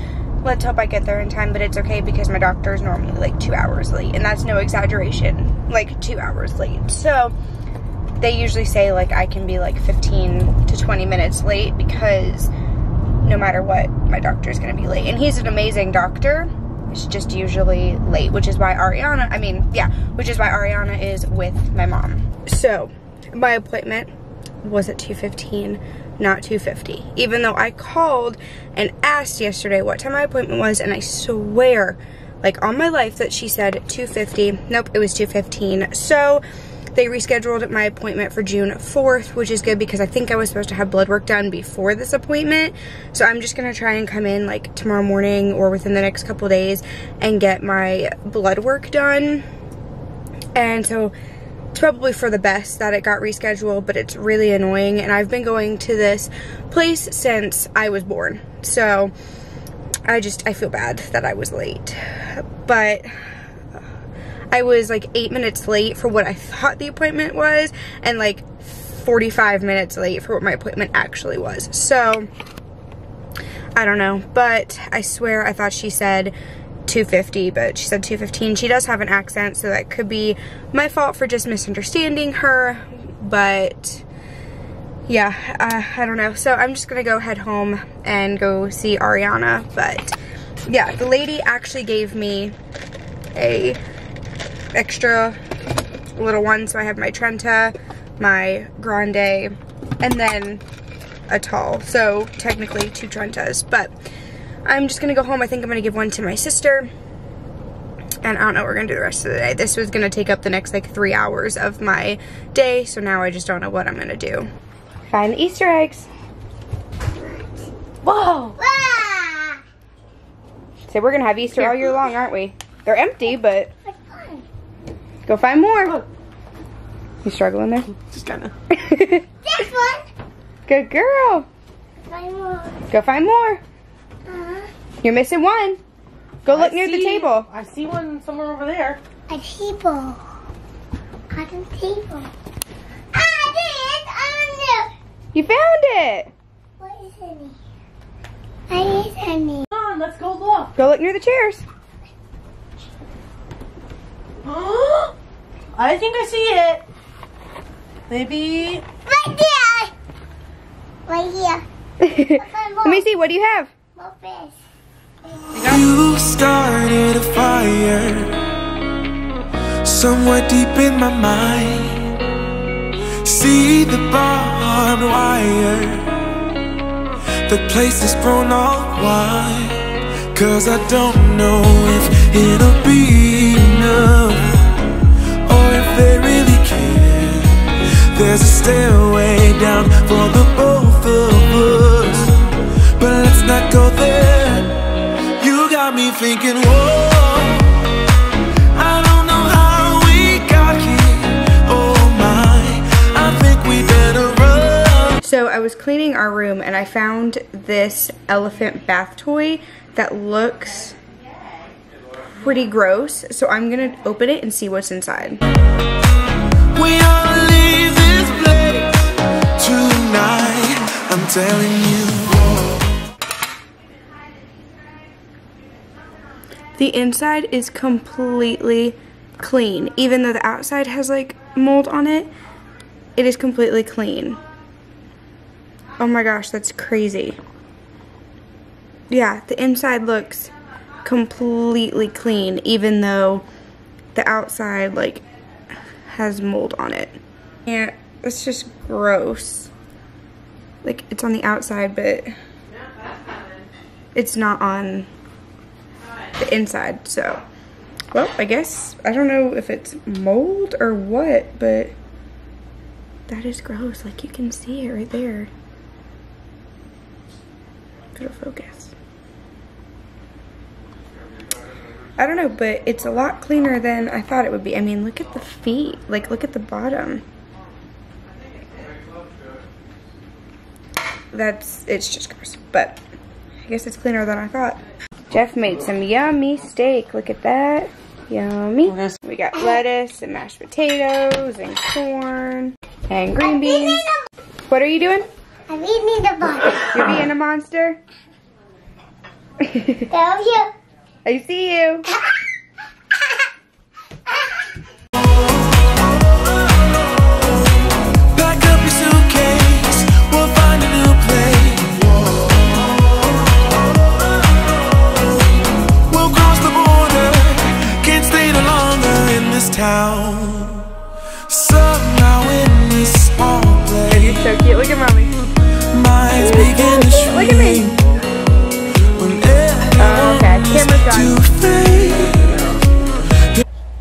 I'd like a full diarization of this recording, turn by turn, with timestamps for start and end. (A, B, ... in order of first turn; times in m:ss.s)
0:00.4-0:07.3 A
0:08.2-0:12.5 A
0:13.2-0:24.1 A
0:24.6-0:36.4 A
0:36.9-0:49.4 A
0:50.6-0:51.1 A
0:51.7-0:59.1 A
1:00.1-1:03.1 A
1:04.5-1:12.3 A
1:13.8-1:16.3 A
1:16.9-1:24.0 A
1:25.1-1:32.6 A
1:33.4-1:33.8 A
1:34.7-1:35.4 A
1:36.2-1:40.6 A
1:41.3-1:43.9 A
1:44.6-1:46.9 A
1:48.2-1:54.5 A
1:55.1-1:56.1 A
1:58.0-1:58.6 B
1:58.6-1:59.6 C
2:00.9-2:03.7 A
2:03.8-2:04.5 C
2:05.3-2:06.0 A
2:07.2-2:07.9 A
2:08.0-2:08.5 B
2:08.7-2:09.3 A
2:09.4-2:10.1 C
2:10.7-2:11.5 A
2:12.1-2:12.8 C
2:12.9-2:13.6 A
2:14.3-2:14.7 C
2:15.0-2:15.8 A
2:16.4-2:17.5 A
2:16.5-2:19.0 B
2:19.3-2:20.2 C
2:21.3-2:22.3 C
2:23.1-2:24.9 C
2:25.3-2:26.3 A
2:26.8-2:27.6 C
2:28.7-2:29.7 C
2:29.7-2:30.7 B
2:30.8-2:31.6 A
2:34.5-2:35.1 B
2:35.8-2:36.9 B
2:38.1-2:38.9 B
2:39.0-2:39.9 C
2:41.1-2:43.0 C
2:42.0-2:43.7 A
2:44.0-2:44.6 C
2:45.3-2:45.7 C
2:45.5-2:48.6 D
2:45.6-2:45.9 A
2:49.8-2:52.2 D
2:53.2-2:56.3 D
2:57.5-3:18.1 D
3:18.7-3:25.2 D
3:25.2-3:31.0 A
3:32.3-3:35.4 A
3:36.7-3:42.8 D
3:46.8-3:52.3 A
3:53.2-3:54.4 A
3:56.0-3:57.4 A
3:59.1-4:00.5 A
4:01.0-4:03.4 A
4:04.1-4:05.2 A
4:06.1-4:09.7 A
4:10.8-4:12.3 A
4:14.2-4:15.1 A
4:16.4-4:17.4 A
4:18.1-4:22.0 A
4:23.3-4:25.5 A
4:28.2-4:28.9 A
4:32.2-4:37.2 A
4:38.5-4:39.0 B
4:41.3-4:43.0 A
4:43.6-4:44.8 A
4:45.3-4:54.1 A
4:53.4-4:54.1 C
4:54.7-4:55.3 A
4:55.7-4:56.9 C
4:56.8-4:58.0 A
4:59.6-5:00.0 A
5:00.1-5:00.7 C
5:01.2-5:02.1 A
5:08.3-5:12.7 D
5:16.1-5:24.5 D
5:24.1-5:25.4 A
5:25.9-5:28.0 D
5:26.4-5:27.9 A
5:29.2-5:32.8 D
5:30.0-5:31.4 A